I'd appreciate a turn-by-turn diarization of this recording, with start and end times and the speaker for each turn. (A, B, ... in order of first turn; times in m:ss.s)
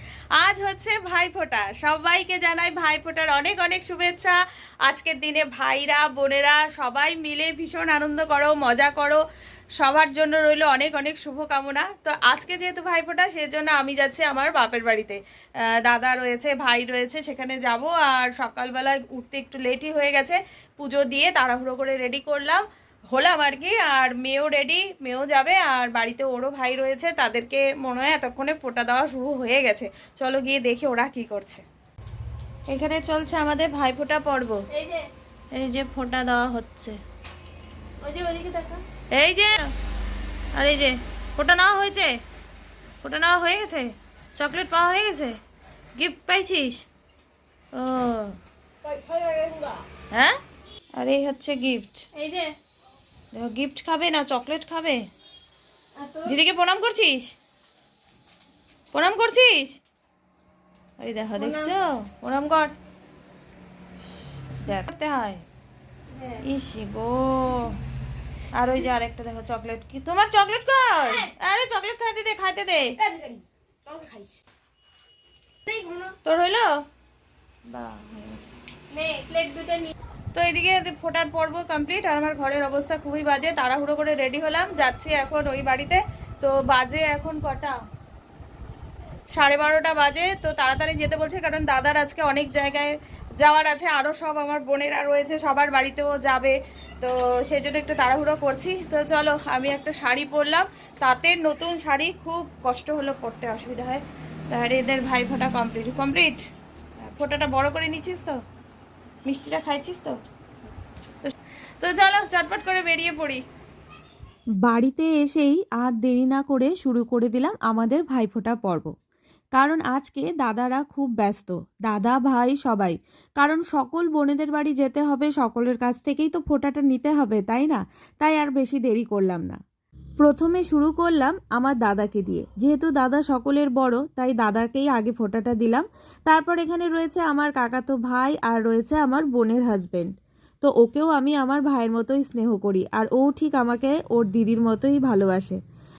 0:00.4-0:09.2 A
0:09.8-0:15.2 A
0:15.7-0:31.6 A
0:32.7-0:34.6 A
0:34.7-0:35.1 B
0:35.5-0:37.0 A
0:38.0-0:38.8 B
0:39.1-0:39.7 A
0:40.5-0:42.1 A
0:43.0-0:45.4 A
0:46.0-0:46.8 A
0:47.7-0:48.3 A
0:48.8-0:49.8 B
0:51.0-0:52.0 A
0:52.1-0:52.5 B
0:53.3-0:55.0 A
0:56.0-0:56.3 B
0:56.2-0:57.2 A
0:58.9-0:59.8 A
1:01.0-1:02.7 A
1:01.4-1:01.7 B
1:04.6-1:05.4 A
1:06.1-1:06.4 B
1:06.4-1:07.8 A
1:08.5-1:13.0 A
1:13.0-1:14.4 B
1:15.7-1:16.1 B
1:16.2-1:16.7 A
1:17.7-1:18.4 A
1:18.9-1:19.9 B
1:20.3-1:27.8 A
1:29.3-1:46.4 A
1:47.0-1:48.4 A
1:49.2-1:50.2 A
1:51.2-1:53.4 A
1:54.6-1:58.9 C
1:59.6-2:09.6 C
2:10.2-2:20.1 C
2:20.6-2:25.6 C